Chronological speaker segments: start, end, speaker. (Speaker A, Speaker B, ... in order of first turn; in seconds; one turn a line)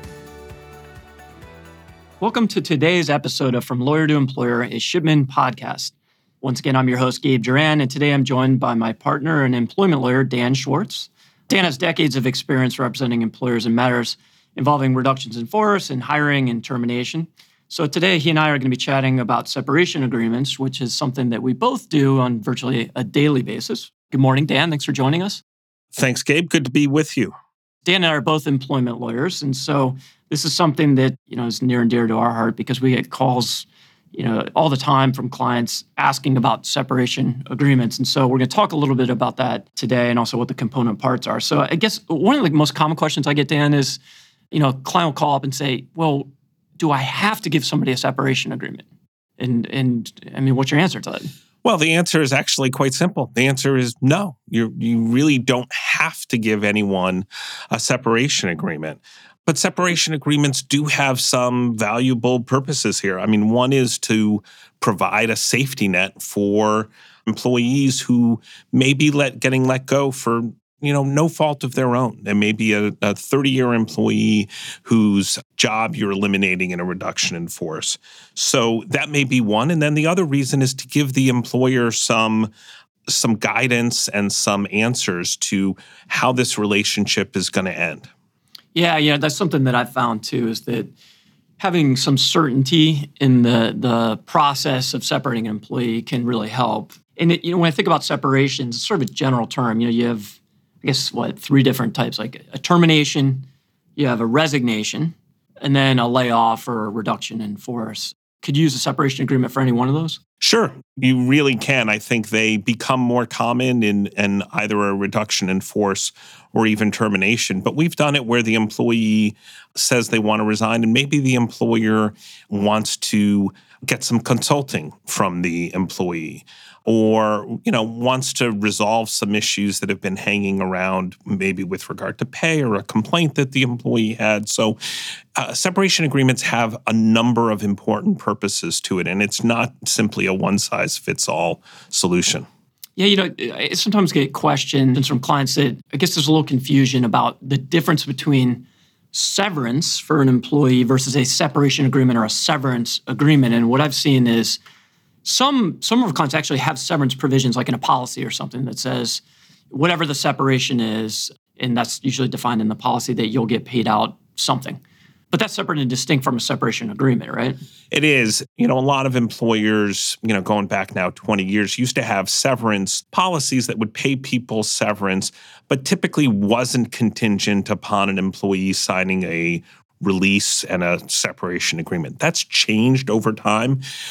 Speaker A: 2.2-25.4
Speaker B: 25.9-27.3
Speaker A: 27.8-48.8
Speaker A: 49.4-51.3
Speaker B: 51.6-82.5
Speaker B: 83.1-88.1
Speaker A: 88.7-90.9
Speaker A: 91.6-110.2
Speaker B: 110.4-134.8
Speaker B: 135.3-142.4
Speaker A: 142.9-154.6
Speaker A: 155.2-167.6
Speaker B: 167.9-183.8